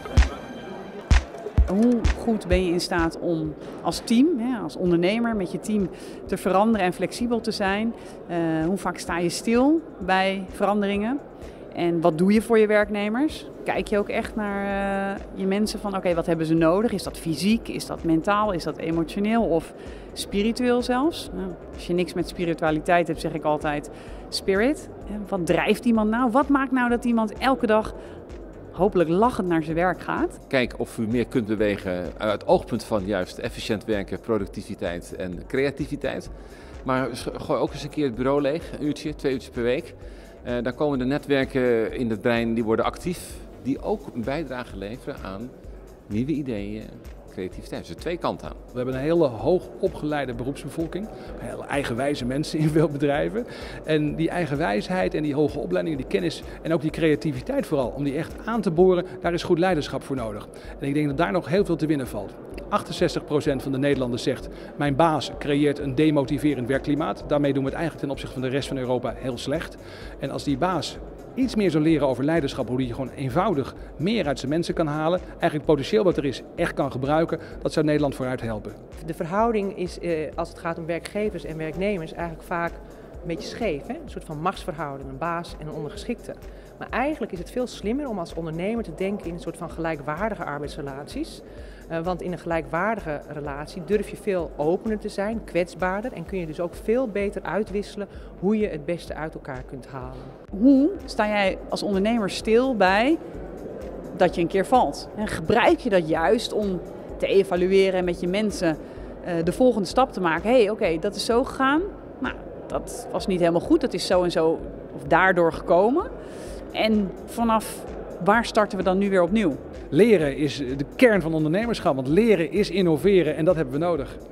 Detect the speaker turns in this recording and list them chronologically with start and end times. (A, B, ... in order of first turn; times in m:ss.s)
0:01.7-0:11.2 A
0:11.7-0:28.0 A
0:28.7-0:30.4 A
0:30.5-0:36.3 B
0:36.8-0:45.5 B
0:46.1-0:48.6 B
0:48.7-1:18.8 C
1:19.0-1:40.3 D
1:40.5-1:43.2 A
1:44.1-1:56.1 A
1:56.7-1:59.6 A
1:59.9-2:04.2 C